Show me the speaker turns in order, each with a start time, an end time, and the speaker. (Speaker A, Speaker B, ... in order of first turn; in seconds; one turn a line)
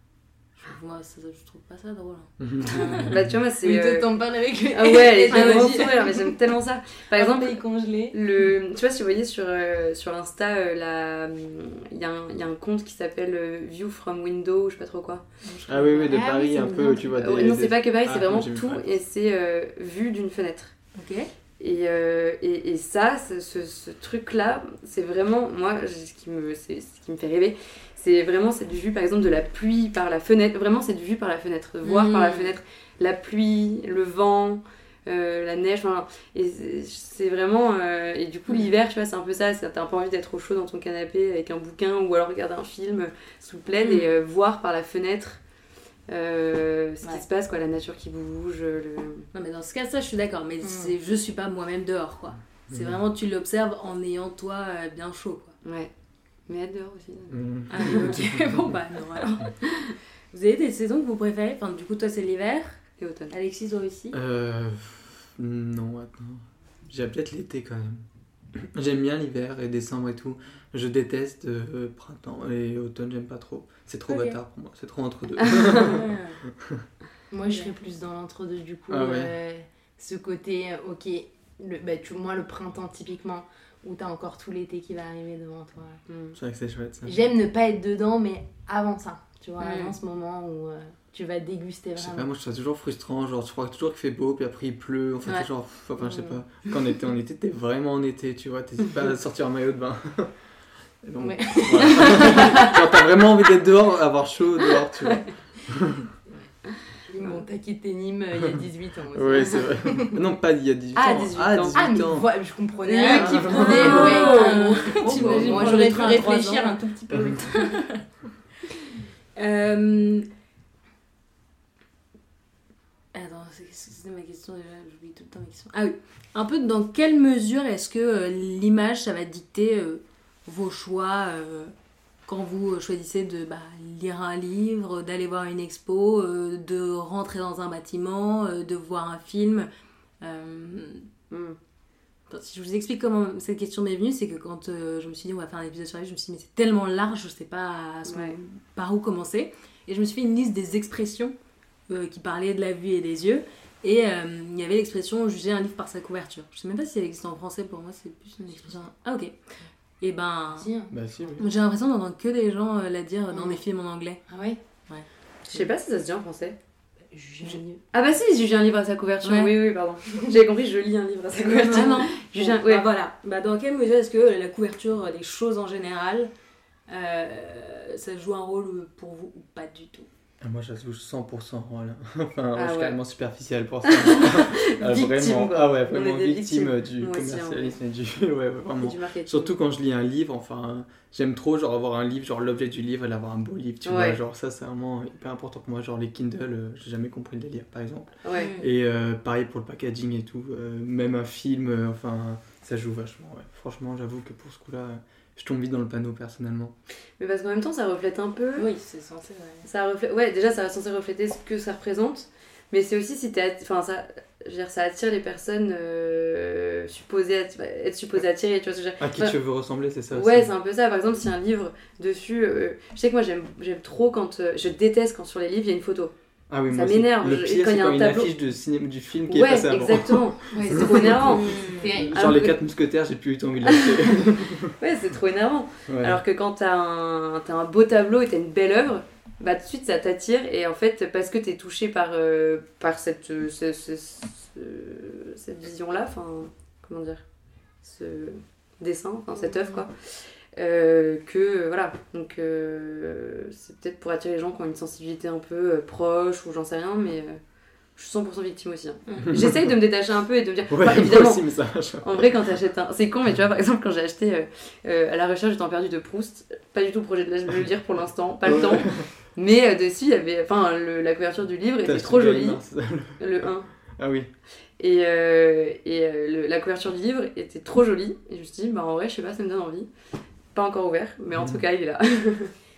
Speaker A: 0.6-3.2
Speaker B: 2.4-3.3
Speaker C: 2.8-4.1
Speaker D: 3.6-6.3
Speaker C: 4.7-15.2
Speaker A: 5.3-5.9
Speaker D: 7.1-8.2
Speaker A: 15.4-16.2
Speaker B: 15.7-18.9
Speaker D: 16.0-17.1
Speaker C: 17.0-20.8
Speaker A: 21.0-21.3
Speaker C: 21.6-45.4
Speaker A: 31.9-32.6
Speaker A: 43.8-44.1
Speaker C: 46.1-49.3
Speaker A: 49.3-55.5
Speaker D: 50.6-51.0
Speaker B: 52.7-53.0
Speaker C: 55.6-55.9
Speaker C: 56.5-58.0
Speaker B: 57.3-58.7
Speaker A: 57.7-59.5
Speaker A: 60.3-64.2
Speaker C: 63.0-63.3
Speaker B: 64.1-76.9
Speaker D: 74.1-74.4
Speaker C: 75.4-75.9
Speaker A: 75.9-76.4
Speaker D: 77.3-86.0
Speaker B: 78.9-79.3
Speaker C: 86.1-86.4
Speaker B: 86.4-87.2
Speaker D: 87.0-92.3
Speaker A: 89.6-89.9
Speaker B: 92.0-100.3
Speaker B: 101.0-106.0
Speaker D: 101.2-102.8
Speaker D: 107.1-110.2
Speaker B: 109.1-112.3
Speaker C: 110.9-111.8
Speaker D: 111.7-117.9
Speaker A: 112.9-116.8
Speaker C: 112.9-115.6
Speaker B: 113.1-114.1
Speaker B: 115.0-115.9
Speaker A: 117.5-118.0
Speaker A: 119.4-120.3
Speaker A: 123.1-131.7
Speaker A: 132.3-139.7
Speaker A: 140.2-141.1
Speaker C: 141.3-141.6
Speaker A: 142.3-151.3
Speaker C: 148.1-148.3
Speaker A: 151.9-159.4
Speaker A: 160.0-160.7
Speaker D: 160.6-161.4
Speaker B: 160.9-161.4
Speaker A: 161.4-164.2
Speaker D: 163.3-163.6
Speaker D: 164.3-164.6
Speaker C: 165.5-166.6
Speaker D: 167.1-167.8
Speaker C: 167.9-172.9
Speaker A: 169.2-169.5
Speaker D: 171.4-172.1
Speaker A: 171.7-176.3
Speaker A: 176.9-180.1
Speaker B: 180.4-206.7
Speaker C: 182.6-183.0
Speaker C: 183.8-187.8
Speaker C: 188.8-189.6
Speaker C: 193.8-194.2
Speaker C: 198.2-198.5
Speaker A: 198.3-198.7
Speaker C: 207.2-208.7
Speaker A: 208.6-209.7
Speaker C: 209.7-219.3
Speaker B: 219.0-220.5
Speaker C: 220.1-226.1
Speaker B: 226.5-231.3
Speaker C: 226.7-228.3
Speaker C: 229.3-232.6
Speaker A: 230.5-231.9
Speaker D: 231.2-232.2
Speaker B: 232.0-234.7
Speaker C: 233.6-247.2
Speaker B: 235.9-236.2
Speaker C: 247.8-257.4
Speaker D: 249.3-249.8
Speaker C: 258.0-272.6
Speaker A: 259.1-259.3
Speaker B: 259.3-259.8
Speaker B: 260.7-262.4
Speaker B: 268.4-269.1
Speaker B: 271.8-274.3
Speaker C: 273.2-273.7
Speaker C: 274.8-279.9
Speaker C: 280.5-282.5
Speaker B: 281.3-281.6